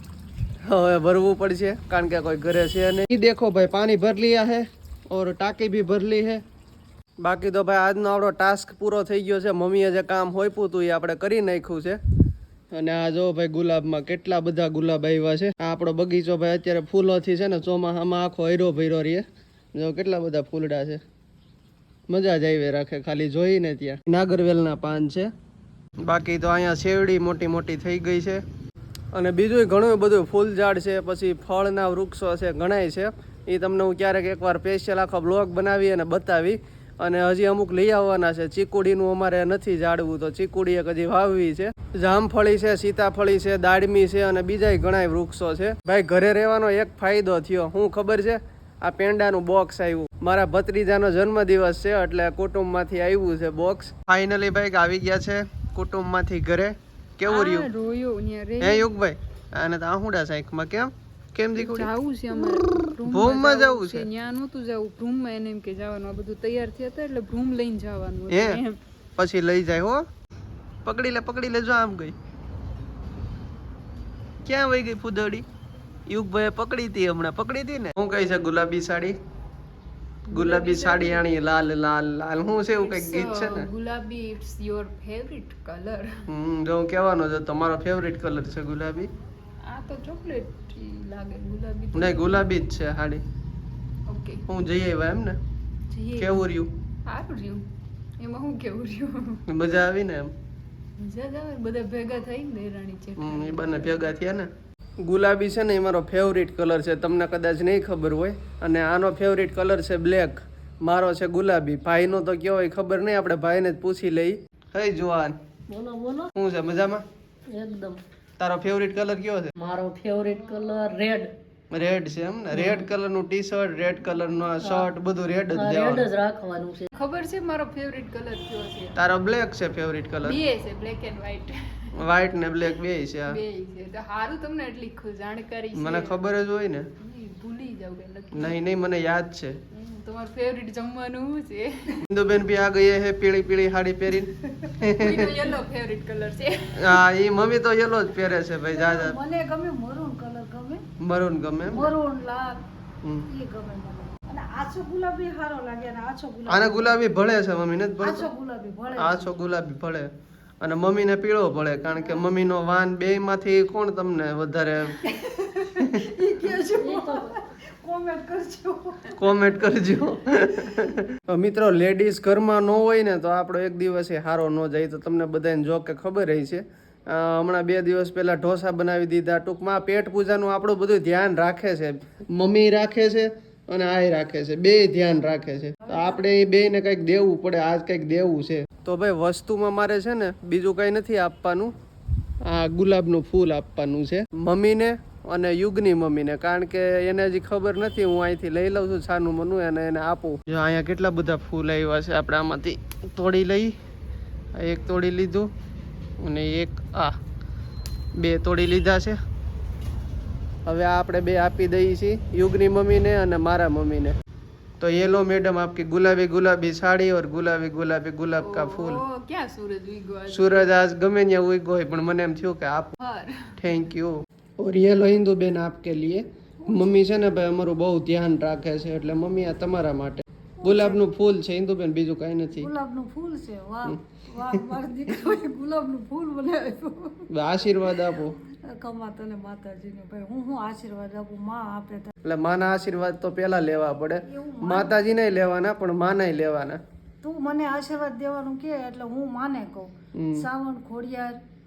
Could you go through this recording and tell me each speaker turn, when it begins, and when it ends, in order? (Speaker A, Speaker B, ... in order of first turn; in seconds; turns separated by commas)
Speaker A: 0.7-6.4, Speaker A: 7.2-12.0, Speaker A: 12.7-19.2, Speaker A: 19.8-21.0, Speaker A: 22.1-25.3, Speaker A: 26.1-28.4, Speaker A: 29.1-57.7, Speaker B: 57.3-58.9, Speaker A: 58.6-61.9, Speaker B: 61.5-68.8, Speaker A: 63.0-64.1, Speaker A: 68.3-68.6, Speaker A: 69.2-70.0, Speaker A: 70.8-72.2, Speaker A: 74.5-75.5, Speaker A: 76.1-79.2, Speaker B: 80.3-81.3, Speaker A: 80.3-83.7, Speaker B: 82.8-86.1, Speaker A: 86.3-89.1, Speaker B: 89.6-92.5, Speaker A: 91.9-93.2, Speaker B: 94.1-94.4, Speaker A: 94.5-95.4, Speaker B: 95.9-96.5, Speaker A: 96.2-96.7, Speaker B: 97.1-97.7, Speaker B: 98.2-99.4, Speaker A: 99.5-100.3, Speaker B: 101.0-104.1, Speaker A: 103.2-104.5, Speaker A: 105.0-115.3, Speaker C: 115.7-116.3, Speaker A: 116.4-117.0, Speaker C: 117.5-118.0, Speaker A: 118.4-119.5, Speaker C: 119.6-121.3, Speaker A: 121.7-126.1, Speaker C: 125.5-126.9, Speaker B: 126.9-129.0, Speaker A: 129.0-130.4, Speaker B: 130.2-131.9, Speaker A: 131.9-133.4, Speaker B: 133.3-136.2, Speaker A: 135.8-136.9, Speaker B: 137.0-138.6, Speaker A: 138.3-139.6, Speaker B: 139.7-142.0, Speaker A: 142.1-145.3, Speaker B: 144.9-147.0, Speaker A: 146.8-149.2, Speaker D: 148.7-150.8, Speaker A: 151.0-151.9, Speaker D: 151.7-152.6, Speaker D: 153.3-156.9, Speaker A: 156.5-158.3, Speaker D: 158.0-159.3, Speaker A: 158.9-160.1, Speaker A: 160.6-165.0, Speaker D: 165.0-169.2, Speaker C: 166.8-167.3, Speaker A: 169.2-191.7, Speaker A: 192.4-203.7, Speaker A: 204.6-205.5, Speaker A: 206.2-207.2, Speaker A: 208.2-209.2, Speaker A: 210.7-214.2, Speaker A: 214.8-219.0, Speaker B: 218.4-220.8, Speaker A: 220.3-222.9, Speaker B: 223.0-223.5, Speaker A: 223.6-232.7, Speaker D: 230.6-231.0, Speaker D: 232.6-237.3, Speaker A: 237.3-238.4, Speaker D: 238.7-242.1, Speaker A: 242.2-246.8, Speaker D: 244.2-245.0, Speaker D: 247.2-251.4, Speaker A: 250.1-250.5